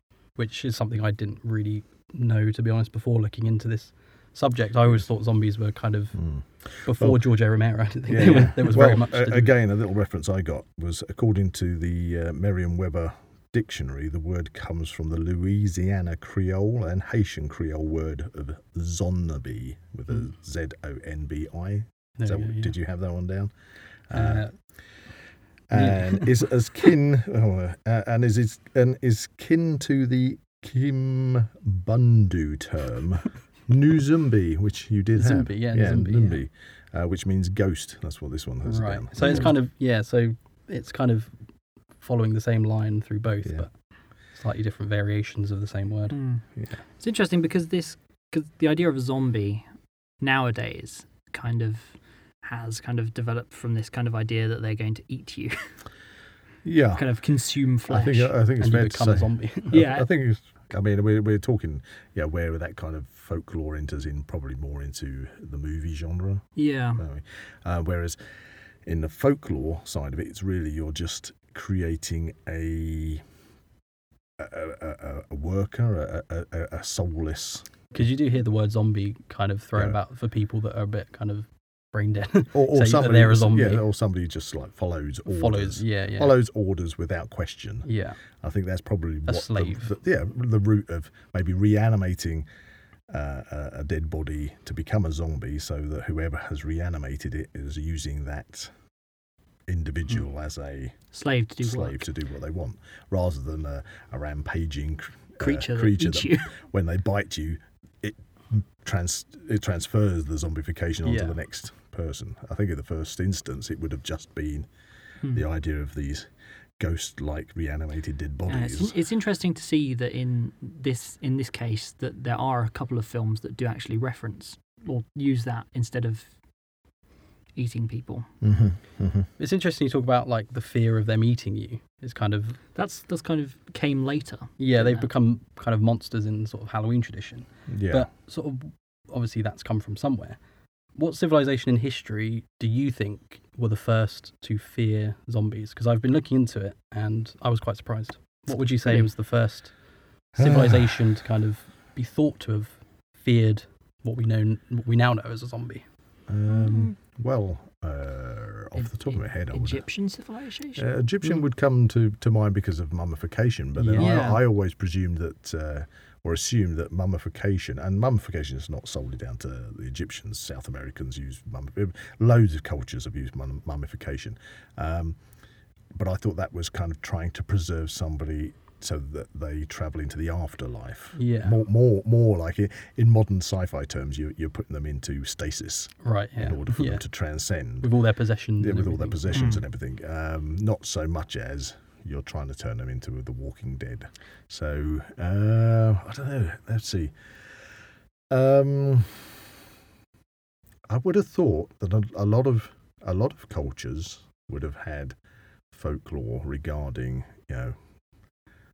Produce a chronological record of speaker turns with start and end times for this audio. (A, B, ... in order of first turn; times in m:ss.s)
0:00.4-0:06.2 A
0:06.2-0:07.2 B
0:06.8-0:09.6 A
0:08.1-0:23.5 B
0:22.2-0:22.7 A
0:24.1-0:24.5 B
0:24.1-0:24.5 A
0:25.7-0:39.5 B
0:25.7-0:26.3 A
0:35.2-0:36.4 A
0:38.6-0:41.3 A
0:39.2-0:39.5 C
0:42.0-0:43.8 A
0:44.3-0:46.2 A
0:46.1-0:46.4 C
0:47.0-0:49.6 C
0:50.2-0:55.6 C
0:56.6-0:57.1 B
0:57.0-0:58.3 C
0:57.9-1:06.5 B
0:58.6-0:59.8 A
0:59.7-1:00.1 C
1:06.6-1:07.0 C
1:07.0-1:08.2 B
1:08.8-1:13.2 B
1:14.4-1:17.8 B
1:17.9-1:23.8 A
1:22.5-1:27.9 B
1:25.3-1:26.4 A
1:27.8-1:28.2 A
1:28.4-1:32.5 B
1:29.3-1:30.0 A
1:33.1-1:38.7 B
1:39.7-1:41.0 B
1:41.1-1:42.0 C
1:41.6-1:54.7 B
1:45.4-1:46.5 C
1:51.0-1:51.4 A
1:55.3-1:59.0 B
1:58.5-2:06.3 C
2:07.6-2:08.3 C
2:08.4-2:09.3 B
2:09.4-2:12.6 A
2:12.8-2:15.1 C
2:14.6-2:20.4 A
2:17.7-2:18.1 B
2:21.0-2:29.7 A
2:30.4-2:35.8 A
2:30.4-2:30.9 B
2:36.3-2:39.8 B
2:36.5-2:36.9 C
2:38.8-2:40.9 C
2:40.8-2:55.2 B
2:43.8-2:44.3 A
2:44.0-2:44.4 C
2:56.0-3:07.9 B
3:01.2-3:01.6 A
3:06.0-3:07.0 A
3:07.8-3:09.5 A
3:08.6-3:17.1 B
3:09.3-3:09.6 C
3:18.3-3:19.4 B
3:20.9-3:25.2 B
3:25.7-3:27.8 B